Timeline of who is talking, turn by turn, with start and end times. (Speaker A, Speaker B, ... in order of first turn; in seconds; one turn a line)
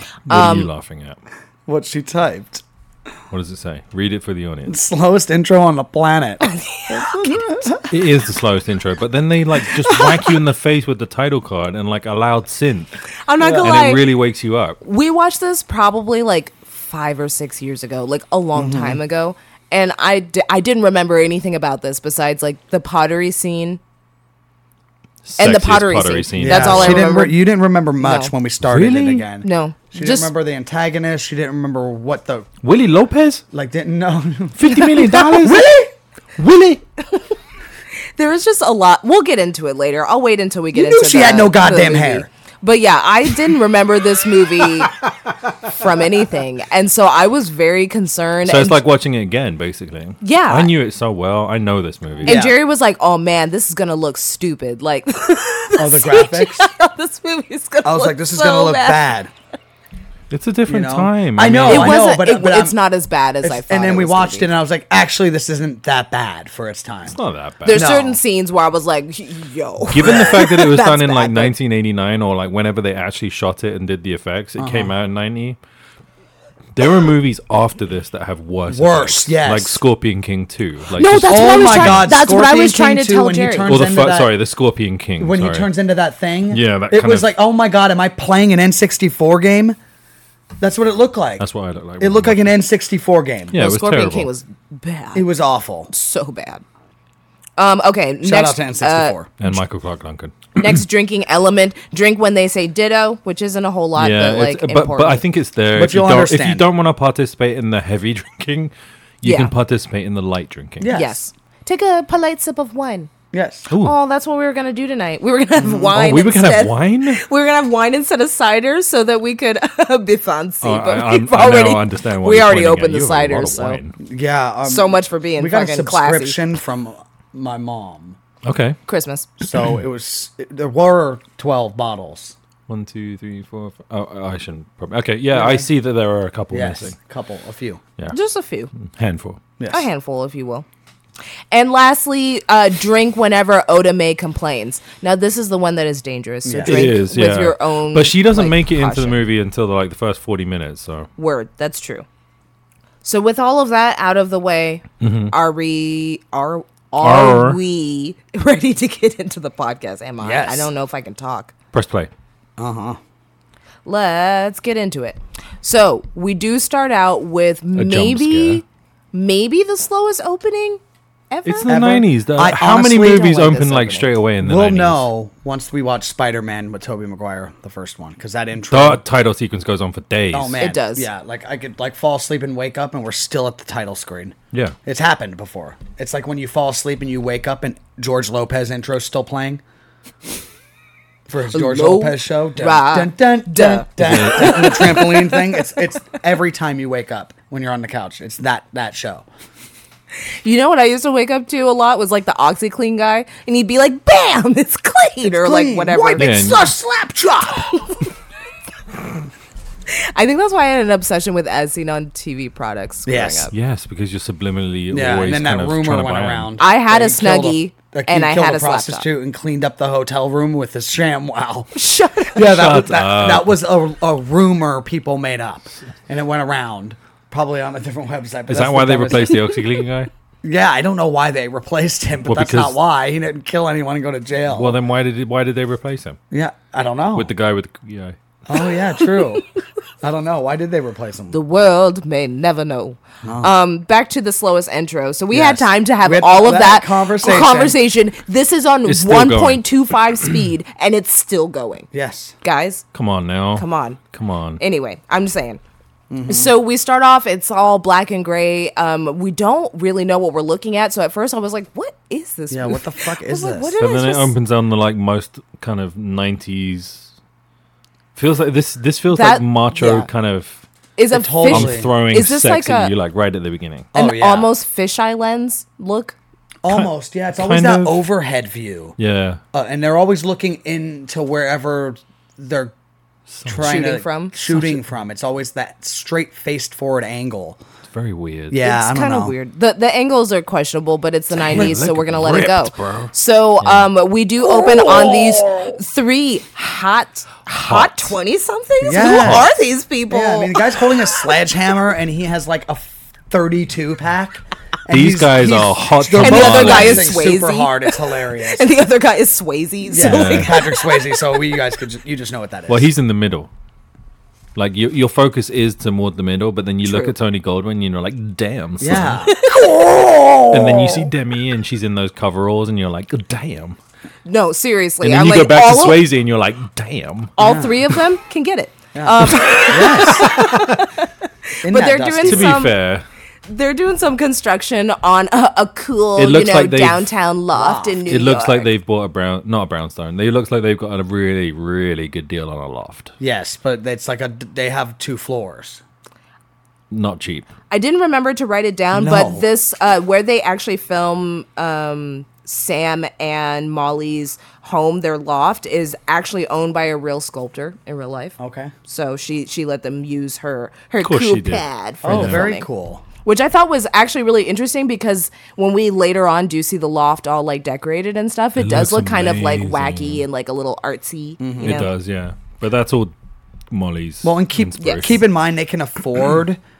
Speaker A: 0.3-1.2
Speaker B: 0.3-0.7
Speaker C: 1.7-2.6
Speaker A: 3.3-4.8
Speaker C: 4.7-7.9
Speaker B: 6.4-7.5
Speaker A: 7.9-12.9
Speaker B: 13.3-14.1
Speaker C: 13.4-13.7
Speaker A: 13.4-14.8
Speaker B: 14.8-23.8
Speaker C: 18.6-19.0
Speaker A: 25.2-27.1
Speaker B: 25.4-27.4
Speaker C: 26.4-32.5
Speaker B: 28.0-28.3
Speaker A: 28.6-29.2
Speaker B: 29.4-30.3
Speaker A: 32.6-33.4
Speaker C: 33.5-34.9
Speaker A: 34.6-35.7
Speaker B: 34.7-35.9
Speaker C: 35.4-35.7
Speaker A: 36.4-36.8
Speaker B: 38.2-45.0
Speaker C: 40.7-42.3
Speaker B: 45.6-48.8
Speaker A: 48.5-52.4
Speaker B: 50.2-50.7
Speaker C: 52.2-52.6
Speaker B: 52.2-59.1
Speaker C: 55.8-56.7
Speaker C: 57.8-59.3
Speaker A: 60.3-62.0
Speaker C: 60.7-62.8
Speaker B: 61.7-64.5
Speaker C: 63.4-67.2
Speaker A: 67.1-67.9
Speaker B: 67.7-71.5
Speaker C: 67.7-68.2
Speaker A: 69.9-75.6
Speaker C: 70.0-70.5
Speaker C: 74.6-74.9
Speaker A: 76.8-82.2
Speaker C: 78.7-79.8
Speaker B: 81.0-83.7
Speaker C: 81.3-84.3
Speaker A: 83.7-85.7
Speaker C: 85.2-89.8
Speaker A: 86.5-87.3
Speaker C: 90.6-91.5
Speaker A: 91.4-92.5
Speaker C: 92.0-93.6
Speaker A: 93.5-94.3
Speaker B: 93.5-95.3
Speaker C: 95.2-95.9
Speaker B: 95.9-96.6
Speaker B: 97.6-99.2
Speaker C: 98.2-99.4
Speaker A: 99.4-100.8
Speaker B: 100.6-105.2
Speaker A: 104.0-110.9
Speaker C: 105.7-106.7
Speaker B: 109.2-109.5
Speaker C: 110.8-111.2
Speaker B: 110.9-113.1
Speaker C: 113.3-113.7
Speaker A: 113.7-114.0
Speaker B: 113.8-123.8
Speaker C: 115.6-116.0
Speaker A: 115.9-117.2
Speaker A: 120.6-124.0
Speaker C: 124.0-128.2
Speaker B: 124.7-126.4
Speaker A: 128.4-128.8
Speaker B: 128.9-129.3
Speaker C: 129.4-132.3
Speaker A: 132.7-136.9
Speaker C: 135.3-135.7
Speaker C: 136.5-137.8
Speaker B: 138.1-138.7
Speaker A: 138.8-139.4
Speaker C: 139.6-139.9
Speaker B: 139.7-140.7
Speaker B: 141.5-149.2
Speaker C: 146.4-146.9
Speaker A: 146.7-151.1
Speaker B: 151.2-152.1
Speaker B: 153.0-161.5
Speaker A: 155.0-155.3
Speaker A: 157.0-157.6
Speaker C: 160.2-160.7
Speaker A: 161.7-162.1
Speaker C: 162.6-163.0
Speaker B: 163.8-170.8
Speaker A: 167.8-168.6
Speaker B: 171.3-171.8
Speaker A: 171.4-175.1
Speaker C: 171.7-173.6
Speaker B: 173.4-174.1
Speaker C: 174.4-179.0
Speaker A: 178.7-180.6
Speaker C: 180.3-189.6
Speaker B: 180.6-181.1
Speaker C: 191.3-199.3
Speaker B: 191.5-195.5
Speaker A: 194.0-194.9
Speaker B: 200.4-206.6
Speaker C: 205.2-207.7
Speaker A: 206.2-206.7
Speaker B: 207.7-208.0
Speaker B: 209.9-213.5
Speaker C: 213.1-213.5
Speaker A: 213.5-216.6
Speaker C: 214.9-221.7
Speaker B: 216.6-219.1
Speaker B: 221.8-222.4
Speaker C: 222.3-229.5
Speaker A: 222.4-223.6
Speaker A: 228.5-230.1
Speaker C: 230.4-234.8
Speaker A: 232.3-232.8
Speaker A: 234.5-236.2
Speaker C: 236.3-237.3
Speaker A: 237.2-238.2
Speaker C: 238.5-239.5
Speaker C: 240.0-241.4
Speaker B: 241.3-251.9
Speaker C: 243.2-243.5
Speaker C: 245.3-247.8
Speaker A: 248.9-249.6
Speaker C: 251.9-252.3
Speaker B: 252.4-252.8
Speaker A: 252.9-254.6
Speaker B: 253.6-254.0
Speaker B: 254.6-255.6
Speaker C: 256.1-256.5
Speaker B: 256.3-264.3
Speaker C: 262.5-263.8
Speaker A: 263.8-267.1
Speaker A: 268.2-270.6
Speaker B: 269.1-270.1
Speaker B: 271.0-272.9
Speaker C: 271.1-271.9
Speaker A: 271.5-273.9
Speaker C: 273.9-274.5
Speaker B: 273.9-276.2
Speaker C: 276.6-279.0
Speaker A: 276.7-278.0
Speaker A: 279.0-279.4
Speaker C: 279.5-282.7
Speaker A: 283.3-283.9
Speaker C: 283.5-287.6
Speaker B: 283.6-284.4
Speaker A: 284.5-284.8
Speaker A: 287.9-288.6
Speaker C: 288.5-289.4
Speaker B: 288.6-300.8
Speaker A: 291.4-293.9
Speaker C: 294.4-295.8
Speaker A: 297.5-298.2
Speaker C: 298.8-299.5
Speaker A: 298.9-299.5
Speaker C: 300.1-308.8
Speaker A: 304.9-307.2
Speaker B: 306.2-311.2
Speaker C: 309.9-312.9
Speaker A: 310.0-310.6
Speaker A: 312.7-313.5
Speaker A: 314.6-319.2
Speaker B: 316.8-317.1
Speaker C: 318.8-321.1
Speaker B: 319.2-319.7
Speaker A: 320.5-323.8
Speaker B: 324.3-326.1
Speaker A: 325.0-327.3
Speaker B: 327.4-332.8
Speaker C: 327.4-327.9
Speaker C: 328.9-330.5
Speaker A: 329.4-330.9
Speaker C: 331.6-332.6
Speaker A: 332.2-333.1
Speaker B: 333.5-338.7
Speaker A: 336.2-337.1
Speaker C: 337.5-338.0
Speaker A: 338.1-343.1
Speaker C: 343.2-345.8
Speaker A: 346.9-347.5
Speaker B: 347.7-358.4
Speaker C: 348.9-349.5
Speaker C: 358.4-358.7
Speaker B: 358.9-362.7
Speaker A: 361.0-362.5
Speaker C: 362.0-363.1
Speaker B: 363.2-371.9
Speaker A: 368.6-370.2
Speaker C: 371.4-371.9
Speaker A: 371.6-373.1
Speaker A: 373.7-375.2
Speaker C: 374.2-376.6